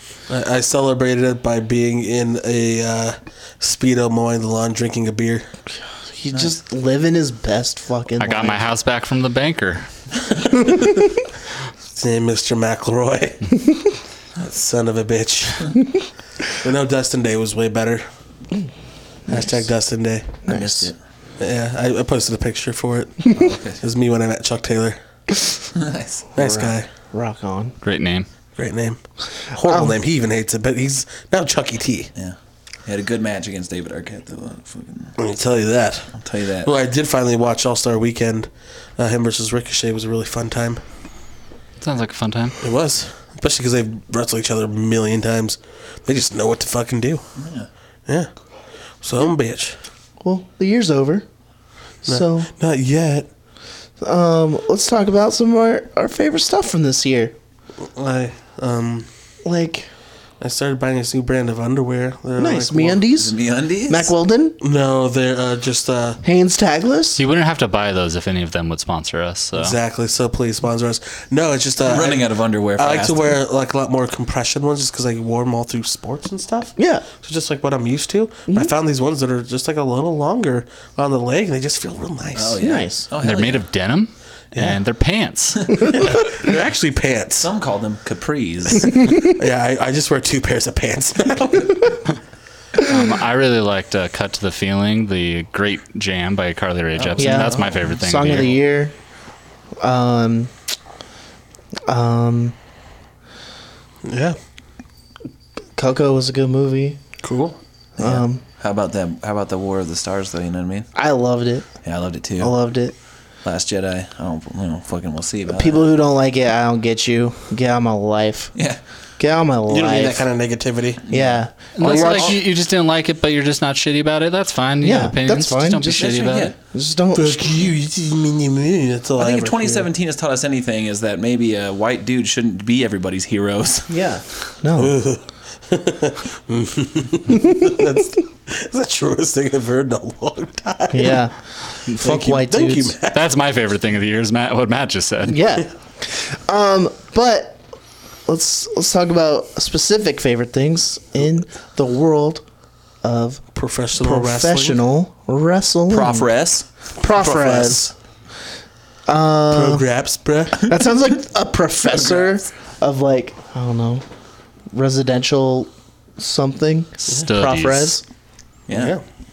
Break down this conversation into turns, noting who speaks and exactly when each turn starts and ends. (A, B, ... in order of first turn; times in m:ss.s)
0:00.3-0:05.5 A
0:06.1-0:08.6 B
0:08.2-0:09.8 C
0:10.3-0:11.1 A
0:11.9-0:13.5 A
0:14.4-0:15.7 A
0:16.6-0:18.0 A
0:19.3-0:20.5 A
0:20.4-0:20.9 B
0:20.5-0:20.9 D
0:21.4-0:25.0 A
0:23.3-0:23.8 D
0:25.7-0:26.3 D
0:26.3-0:26.9 A
0:26.4-0:27.7 B
0:27.8-0:28.3 C
0:28.6-0:32.1 A
0:29.7-0:29.9 B
0:32.2-0:35.1 D
0:35.2-0:40.8 A
0:36.2-0:36.7 D
0:41.8-0:42.6 C
0:42.6-0:47.2 A
0:47.4-0:47.7 D
0:49.0-0:49.8 A
0:50.2-0:51.2 B
0:52.0-0:53.3 A
0:52.0-0:52.5 B
0:54.0-0:57.3 B
0:57.8-0:59.1 A
0:59.4-0:59.9 B
1:00.4-1:03.1 A
1:02.4-1:03.3 B
1:03.1-1:04.1 D
1:03.9-1:04.6 B
1:04.6-1:06.2 A
1:06.2-1:07.2 B
1:07.2-1:09.8 C
1:09.5-1:22.6 A
1:11.8-1:13.3 D
1:16.8-1:17.0 B
1:22.3-1:23.6 D
1:22.6-1:23.0 B
1:23.2-1:25.9 C
1:25.8-1:27.5 A
1:27.4-1:29.1 D
1:28.9-1:29.2 B
1:29.2-1:32.0 A
1:32.8-1:38.6 C
1:37.0-1:37.7 D
1:37.2-1:38.9 B
1:39.8-1:40.5 B
1:41.9-1:42.5 B
1:44.0-1:44.4 A
1:45.8-1:47.0 B
1:47.2-1:47.6 A
1:48.0-1:50.9 D
1:48.0-1:48.4 B
1:50.9-1:51.7 B
1:51.8-1:52.5 D
1:52.4-1:52.9 B
1:53.4-1:55.8 D
1:55.5-1:58.5 B
1:59.2-2:00.3 B
1:59.7-2:01.0 A
2:01.0-2:01.4 D
2:01.1-2:02.4 B
2:01.8-2:06.5 C
2:01.8-2:02.4 A
2:04.8-2:07.5 B
2:05.9-2:06.5 D
2:07.1-2:09.9 A
2:09.2-2:13.9 D
2:13.9-2:15.0 B
2:14.8-2:21.2 A
2:17.3-2:17.8 B
2:20.9-2:21.4 B
2:21.9-2:22.9 B
2:22.0-2:23.2 A
2:23.1-2:25.4 C
2:25.3-2:27.6 B
2:28.3-2:32.4 B
2:33.0-2:33.4 B
2:33.5-2:34.8 A
2:34.0-2:36.3 B
2:35.9-2:36.6 D
2:37.0-2:37.8 B
2:37.1-2:37.9 A
2:39.1-2:39.8 B
2:39.5-2:40.7 A
2:40.5-2:44.0 B
2:44.7-2:48.0 B
2:47.0-2:48.0 C
2:48.7-2:48.9 D
2:48.7-2:49.0 A